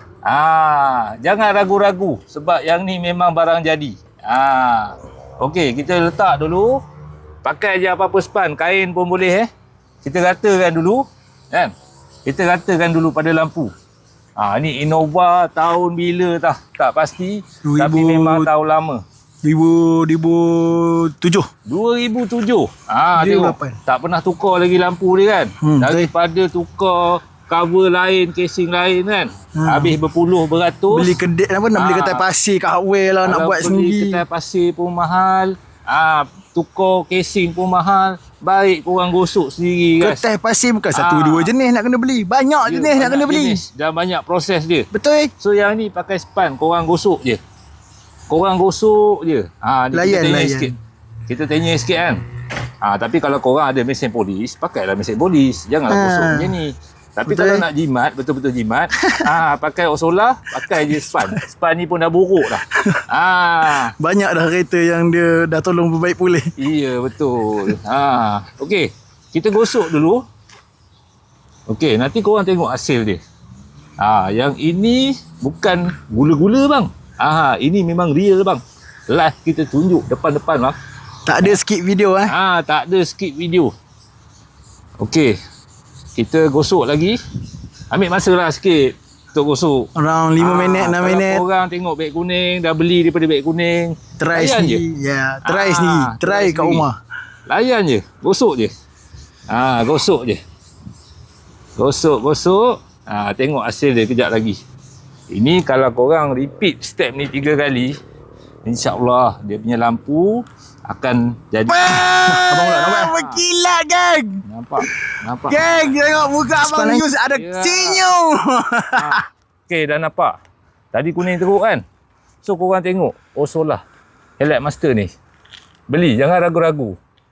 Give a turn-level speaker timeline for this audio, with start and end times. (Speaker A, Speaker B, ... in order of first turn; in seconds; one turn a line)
Speaker A: 0.2-6.8
Speaker A: 7.4-9.5
Speaker A: 10.0-11.7
Speaker A: 12.3-13.7
Speaker A: 14.4-19.0
Speaker B: 17.6-18.5
Speaker B: 19.4-21.5
Speaker A: 21.7-31.2
Speaker B: 23.1-23.8
Speaker B: 25.6-26.1
Speaker B: 29.6-30.0
Speaker B: 30.9-34.2
Speaker A: 31.8-32.2
Speaker A: 33.2-40.2
Speaker B: 40.0-43.6
Speaker A: 40.9-41.5
Speaker A: 42.7-44.9
Speaker B: 44.9-45.3
Speaker A: 45.4-47.4
Speaker A: 48.3-50.8
Speaker B: 49.9-50.7
Speaker A: 51.3-52.2
Speaker A: 52.8-63.9
Speaker B: 55.9-56.6
Speaker B: 57.3-57.7
Speaker B: 60.8-61.4
Speaker B: 62.7-63.0
Speaker B: 63.9-66.5
Speaker A: 66.6-70.2
Speaker A: 71.7-73.2
Speaker A: 74.0-80.8
Speaker B: 81.3-82.3
Speaker A: 82.3-83.7
Speaker A: 85.0-85.4
Speaker A: 86.2-87.2
Speaker A: 87.9-89.9
Speaker B: 90.0-91.4
Speaker A: 90.4-94.8
Speaker B: 94.2-97.0
Speaker A: 95.4-96.8
Speaker A: 97.5-98.7
Speaker A: 99.5-100.4
Speaker A: 101.8-104.6
Speaker A: 105.3-108.0
Speaker A: 108.7-113.4
Speaker B: 111.7-114.9
Speaker A: 114.5-116.0
Speaker B: 115.5-119.2
Speaker A: 116.6-118.0
Speaker A: 119.0-120.4
Speaker A: 120.9-121.8
Speaker A: 122.4-123.8
Speaker A: 124.4-125.1
Speaker A: 125.9-127.0